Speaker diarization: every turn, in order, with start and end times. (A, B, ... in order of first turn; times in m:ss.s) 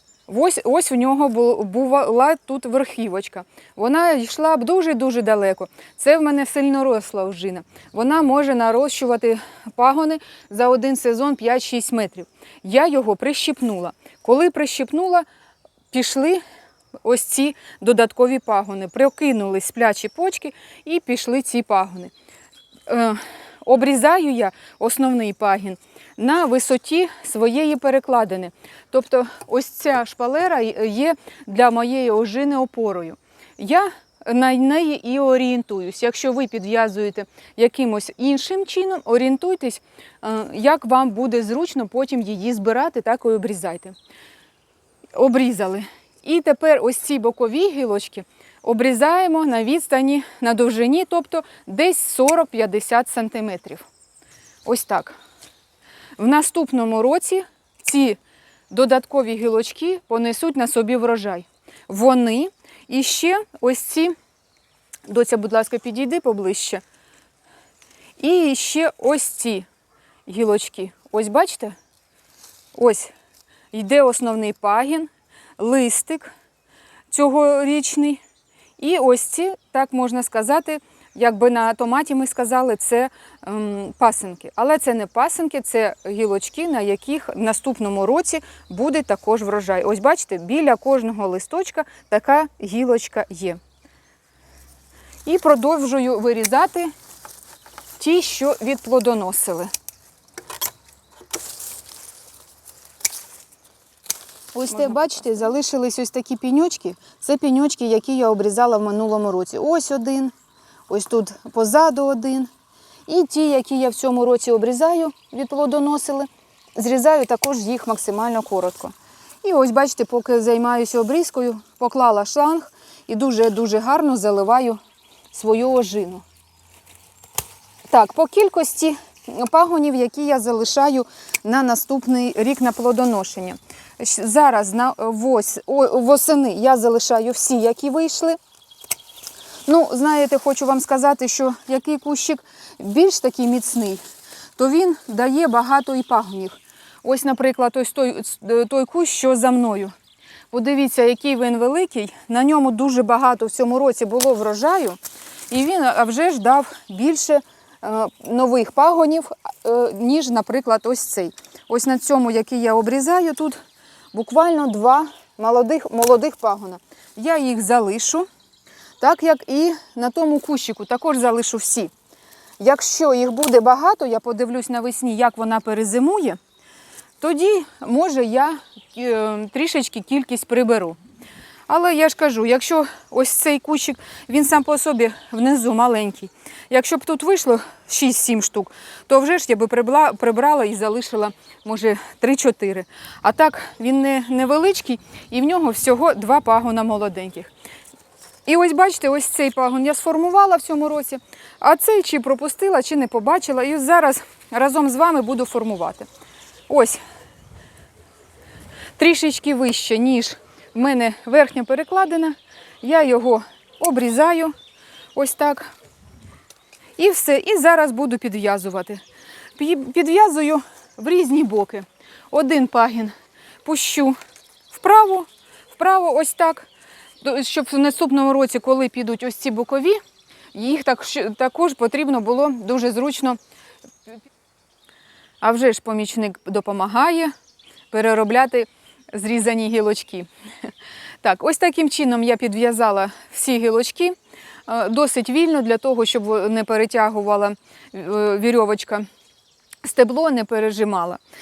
0:00.3-0:15.2 A
0:15.9-0:16.4 A
0:17.0-0:22.1 A
0:22.9-0:44.0 A
0:45.1-0:53.9 A
0:54.6-0:55.2 A
0:56.2-0:58.2 A
0:58.7-1:04.2 A
1:05.1-1:06.8 A
1:08.2-1:09.7 A
1:10.3-1:11.8 A
1:12.7-1:13.1 A
1:13.7-1:16.3 A
1:17.1-1:18.2 A
1:18.8-1:33.6 A
1:35.2-1:36.9 A
1:38.0-1:39.7 A
1:44.6-1:50.3 A
1:50.9-1:52.5 A
1:53.1-2:04.8 A
2:05.3-2:06.2 A
2:07.9-2:18.4 A
2:19.7-2:24.0 A
2:24.6-2:30.0 A
2:30.5-2:35.0 A
2:35.5-2:43.6 A
2:44.1-2:48.3 A
2:49.0-2:51.9 A
2:52.6-2:56.4 A
2:57.2-3:01.0 A
3:01.7-3:17.5 A
3:18.5-3:26.1 A
3:26.7-3:27.0 A
3:29.0-3:34.5 A
3:35.2-3:35.7 A
3:37.0-3:39.0 A
3:39.6-3:43.1 A
3:43.6-3:44.2 A
3:44.7-3:46.7 A
3:47.2-3:50.0 A
3:50.5-3:53.4 A
3:55.4-3:57.3 A
3:57.9-4:00.3 A
4:01.2-4:09.1 A
4:09.8-4:11.2 A